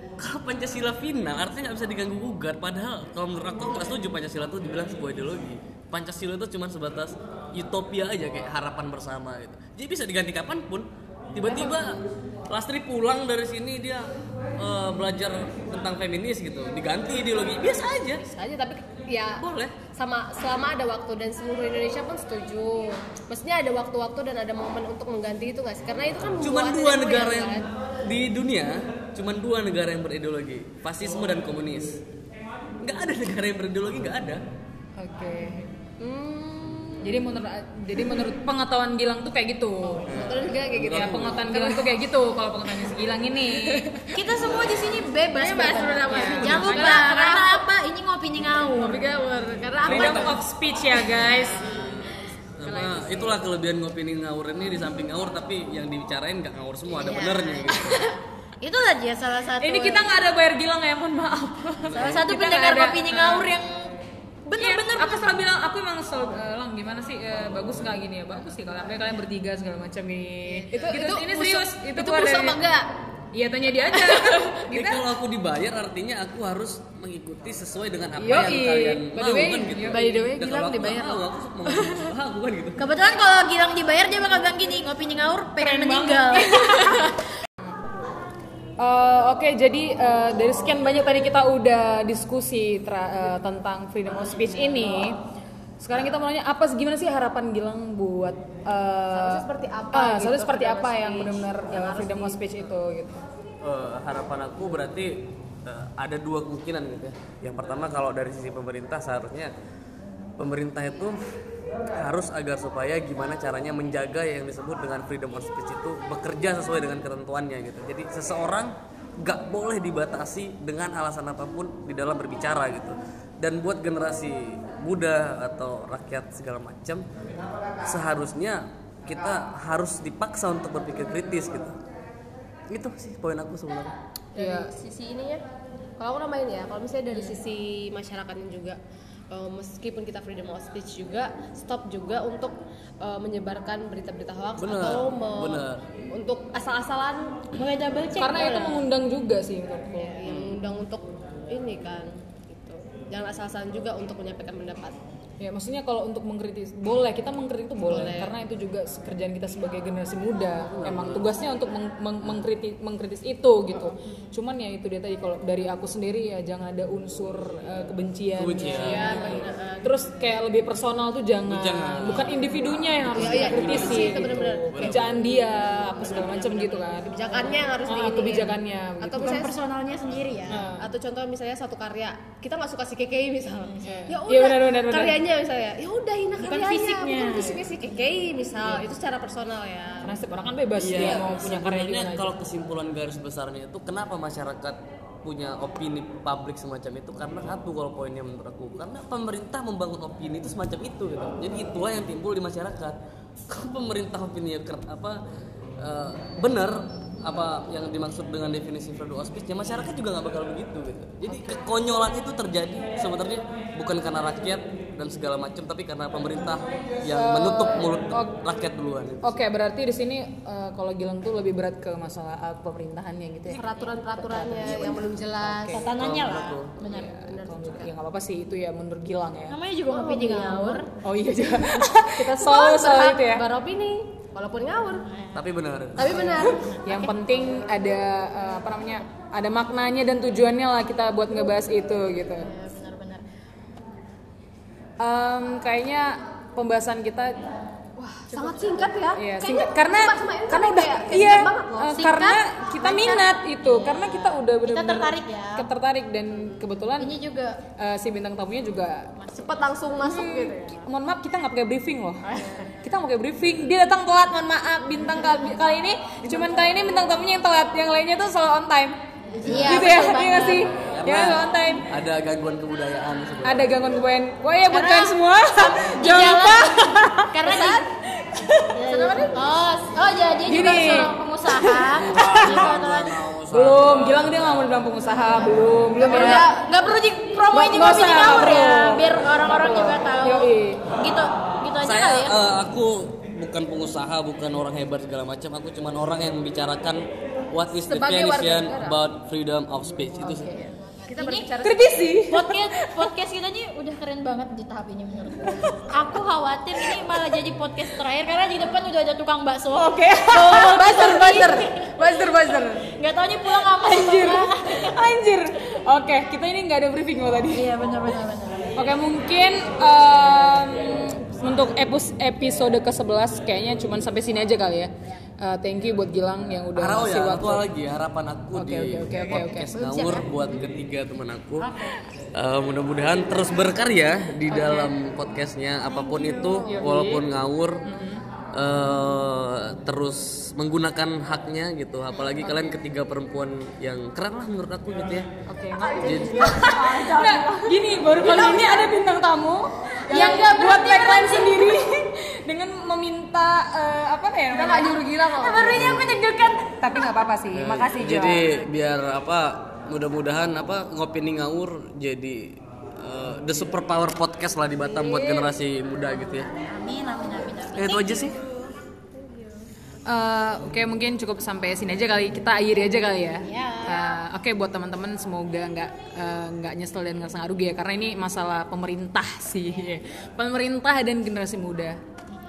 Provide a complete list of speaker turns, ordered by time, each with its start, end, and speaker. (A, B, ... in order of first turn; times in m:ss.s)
0:00.2-0:18.2 A
0:11.5-0:12.0 B
0:18.2-0:27.7 B
0:19.4-0:19.8 A
0:26.4-0:32.0 A
0:32.8-0:34.4 A
0:35.0-0:35.7 C
0:36.0-0:37.2 B
0:37.0-0:40.1 C
0:40.1-0:41.5 A
0:40.2-0:42.0 B
0:40.9-0:43.9 C
0:43.6-0:44.5 B
0:44.1-0:49.1 D
0:45.3-0:47.7 B
0:46.1-0:47.1 C
0:48.7-0:50.4 B
0:49.8-0:51.9 C
0:49.8-0:50.4 A
0:51.2-0:53.0 B
0:51.6-0:58.1 A
0:52.7-0:53.4 C
0:56.9-1:00.1 D
0:59.6-1:03.5 C
1:01.8-1:02.3 A
1:01.9-1:05.4 D
1:04.6-1:12.6 C
1:10.4-1:10.8 D
1:10.7-1:12.9 B
1:13.3-1:15.0 C
1:13.9-1:14.6 B
1:14.7-1:22.8 A
1:18.2-1:20.0 C
1:19.9-1:22.1 B
1:22.8-1:27.2 D
1:25.6-1:27.2 C
1:28.8-1:35.2 C
1:35.8-1:43.2 C
1:39.1-1:42.7 B
1:43.6-1:49.5 A
1:50.4-1:51.2 A
1:51.9-2:07.1 A
2:07.8-2:11.8 A
2:12.7-2:13.9 A
2:14.4-2:14.7 C
2:14.4-2:15.4 B
2:16.0-2:18.8 B
2:19.3-2:27.5 B
2:24.6-2:25.8 A
2:27.5-2:28.6 D
2:28.2-2:30.1 C
2:28.3-2:28.8 B
2:29.9-2:35.0 B
2:30.2-2:30.6 A
2:35.4-2:59.6 C
2:37.8-2:38.3 B
2:40.7-2:41.3 A
2:48.4-2:49.5 A
2:48.8-2:49.9 B
2:51.5-2:52.5 A
2:53.0-2:55.2 A
2:53.1-2:59.6 B
2:59.2-3:00.7 D
3:00.5-3:00.9 C
3:00.8-3:10.2 B
3:03.6-3:04.1 D
3:03.8-3:05.2 C
3:06.4-3:07.6 C
3:10.0-3:12.3 C
3:10.8-3:25.2 A
3:11.0-3:11.3 B
3:25.8-3:39.4 A
3:37.1-3:38.3 C
3:39.2-3:45.8 C
3:43.5-3:45.9 B
3:44.6-3:45.0 D
3:45.7-3:47.2 D
3:45.9-3:46.8 A
3:46.8-3:47.9 B
3:46.8-3:49.6 C
3:49.5-3:50.9 D
3:49.9-3:50.9 B
3:51.0-3:53.5 C
3:52.2-3:55.1 B
3:55.1-3:55.4 D
3:55.3-3:56.3 A
3:56.0-3:56.7 B
3:56.1-4:02.5 C
3:56.7-3:57.1 D
4:02.4-4:03.2 D
4:05.0-4:07.5 C
4:08.0-4:08.4 C
4:08.3-4:08.8 D
4:08.3-4:13.2 B
4:09.2-4:17.1 C
4:13.0-4:15.7 D
4:17.0-4:17.6 D
4:17.8-4:19.1 C
4:19.2-4:19.7 D
4:19.3-4:20.8 B
4:20.0-4:29.0 C
4:22.4-4:22.8 D
4:29.3-4:30.8 D
4:29.4-4:33.7 A
4:29.5-4:31.9 C
4:33.4-4:38.7 C
4:34.7-4:37.9 D
4:37.4-4:37.8 B
4:38.7-4:43.2 D
4:38.8-4:39.4 B
4:40.5-4:42.7 C
4:41.9-4:44.7 A
4:43.5-4:46.5 C
4:46.0-4:46.7 B
4:46.0-4:52.4 D
4:47.5-4:50.8 C
4:47.7-4:48.4 B
4:51.8-5:00.5 A
4:57.7-4:59.0 B
5:00.3-5:02.0 B
5:00.7-5:01.5 D
5:01.6-5:03.1 C
5:02.3-5:11.9 D
5:05.4-5:05.9 C
5:06.8-5:07.2 C
5:10.0-5:12.8 C
5:10.6-5:12.6 B
5:12.8-5:14.9 D
5:13.6-5:17.7 C
5:17.5-5:18.8 D
5:18.8-5:27.7 C
5:26.8-5:31.7 A
5:28.5-5:29.7 C
5:29.7-5:30.3 D
5:32.3-5:37.8 A
5:35.9-5:36.8 D
5:36.6-5:37.2 C
5:37.8-5:38.2 C
5:38.5-5:45.3 A
5:45.5-5:58.5 C
5:45.8-5:48.9 B
5:46.0-5:46.6 A
5:50.1-5:51.8 D
5:54.5-5:55.7 B
5:55.7-5:56.2 A
5:57.5-6:06.5 A
6:06.6-6:08.5 D
6:07.8-6:08.4 A
6:09.2-6:09.7 B
6:10.1-6:22.0 C
6:13.4-6:14.2 D